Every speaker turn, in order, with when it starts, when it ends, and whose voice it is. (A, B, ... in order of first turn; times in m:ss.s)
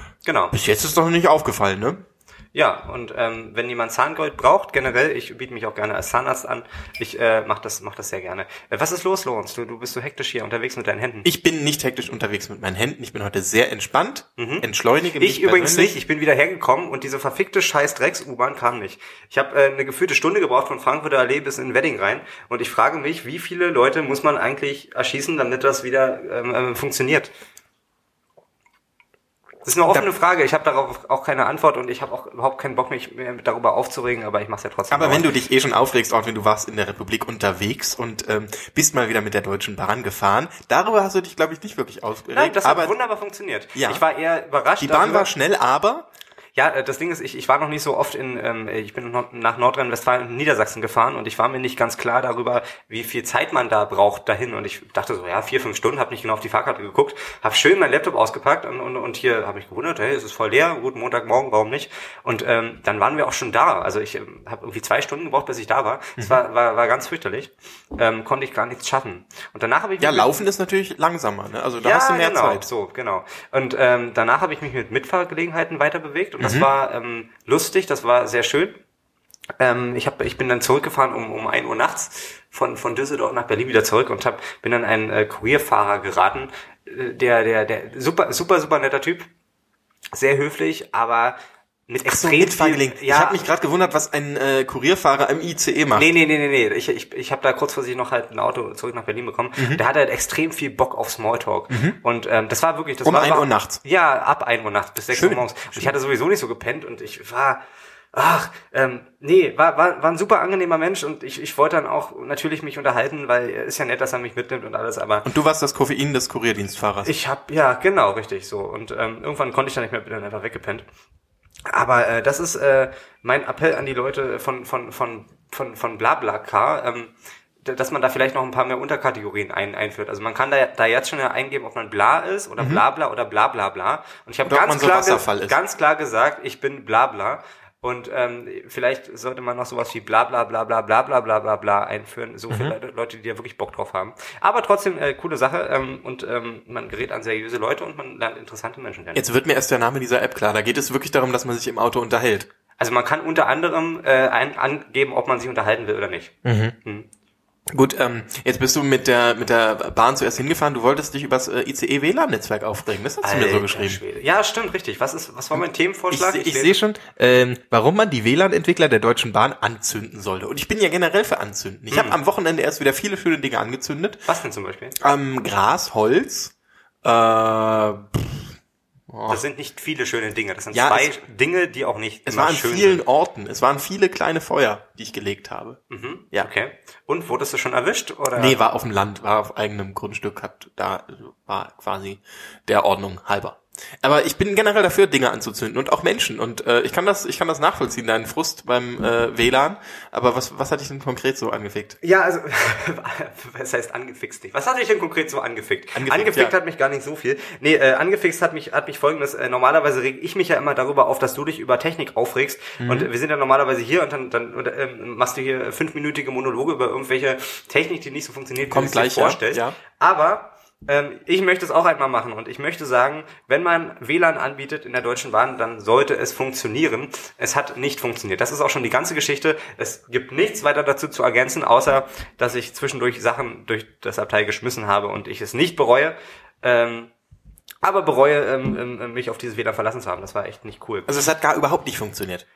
0:00.2-0:00.5 A
0:00.5-0:02.0 B
0:02.5-0:11.2 A
0:11.2-0:16.0 B
0:14.4-0:14.7 A
0:15.2-0:27.3 A
0:29.6-0:35.3 A
0:34.9-0:43.0 B
0:42.3-0:45.3 A
0:43.7-0:44.0 B
0:44.8-0:46.0 B
0:46.6-1:10.3 A
1:10.0-1:12.7 B
1:11.8-1:18.8 A
1:16.4-1:16.7 B
1:19.6-1:29.3 A
1:30.1-1:31.4 A
1:31.9-1:33.4 A
1:32.1-1:36.1 B
1:36.0-1:47.6 A
1:39.6-1:39.8 B
1:41.7-1:42.0 B
1:43.0-1:43.8 B
1:45.1-1:45.9 B
1:48.1-1:55.3 A
1:55.2-1:57.1 B
1:57.0-2:00.8 A
2:01.6-2:29.2 A
2:14.5-2:15.6 B
2:22.5-2:22.8 B
2:29.1-2:32.5 B
2:32.8-2:37.1 A
2:36.4-2:36.8 B
2:37.7-2:44.0 B
2:43.2-2:46.8 A
2:46.1-2:54.2 B
2:51.9-2:52.2 A
2:54.3-2:55.0 A
2:55.0-2:56.5 B
2:57.0-2:58.5 B
2:59.1-2:59.4 B
2:59.3-3:03.0 A
3:00.7-3:01.1 B
3:02.2-3:05.8 B
3:05.9-3:08.6 A
3:08.4-3:22.0 B
3:22.0-3:57.1 A
3:25.9-3:26.5 B
3:32.8-3:33.1 B
3:38.7-3:39.8 B
3:57.8-4:01.1 A
4:01.1-4:02.4 B